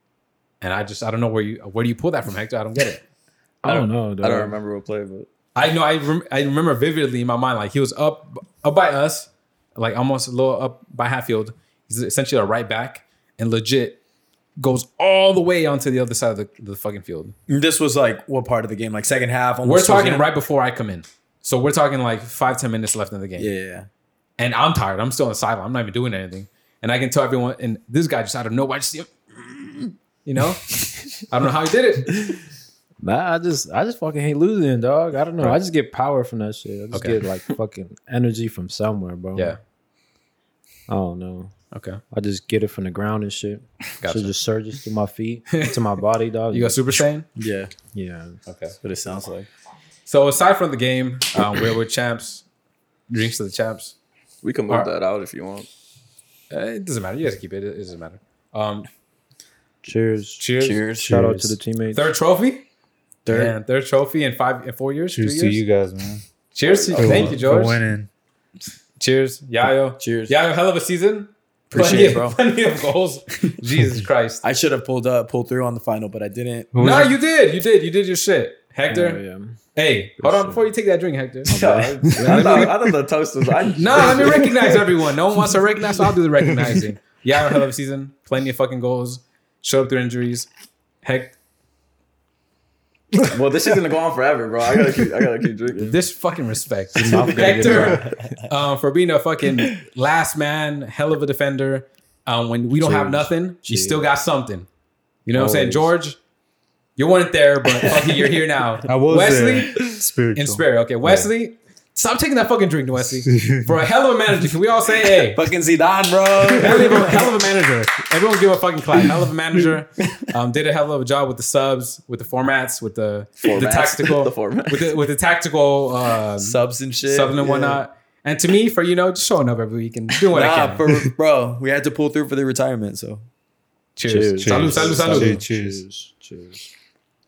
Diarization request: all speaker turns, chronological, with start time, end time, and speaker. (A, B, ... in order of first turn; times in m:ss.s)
0:00.6-0:03.0 A
0:03.6-0:04.6 B
0:03.6-0:05.3 C
0:05.6-0:14.0 A
0:14.6-0:17.4 A
0:17.5-0:20.3 D
0:19.6-0:23.5 A
0:23.4-0:23.9 D
0:24.4-0:32.3 A
0:33.0-0:39.6 B
0:36.9-0:37.2 A
0:40.9-0:41.5 B
0:41.7-0:42.0 A
0:42.1-0:46.8 B
0:44.0-0:44.4 A
0:45.5-0:45.8 A
0:46.5-0:47.3 A
0:47.4-0:47.7 D
0:47.9-0:48.4 B
0:48.5-0:48.8 A
0:48.8-0:49.5 D
0:50.1-0:52.4 A
0:53.1-0:54.0 A
0:54.4-0:55.7 C
0:56.5-0:58.9 A
0:59.8-1:00.4 B
1:00.4-1:00.8 A
1:00.6-1:01.4 D
1:01.0-1:02.0 B
1:01.1-1:01.4 E
1:01.9-1:02.6 A
1:03.2-1:03.6 D
1:03.3-1:05.6 A
1:05.1-1:06.2 E
1:06.5-1:07.8 A
1:06.6-1:07.3 C
1:07.0-1:08.1 E
1:09.0-1:14.4 A
1:10.0-1:10.4 D
1:11.7-1:12.4 D
1:14.4-1:17.0 D
1:16.7-1:17.1 E
1:16.8-1:19.2 A
1:18.9-1:19.6 B
1:19.8-1:21.6 A
1:20.2-1:20.6 B
1:21.5-1:22.7 B
1:21.5-1:24.6 C
1:22.2-1:22.7 A
1:23.7-1:30.5 A
1:31.0-1:31.3 A
1:33.2-1:36.0 C
1:35.8-1:44.7 A
1:37.0-1:38.2 B
1:37.5-1:38.3 D
1:43.0-1:44.0 B
1:45.3-1:46.2 A
1:45.5-1:45.7 B
1:47.0-1:55.5 A
1:47.9-1:48.2 D
1:48.9-1:51.3 E
1:55.1-1:57.3 D
1:56.5-2:10.9 A
2:03.4-2:05.0 C
2:06.4-2:07.8 D
2:10.3-2:13.2 D
2:14.0-2:15.4 A
2:14.1-2:16.6 B
2:14.4-2:15.8 E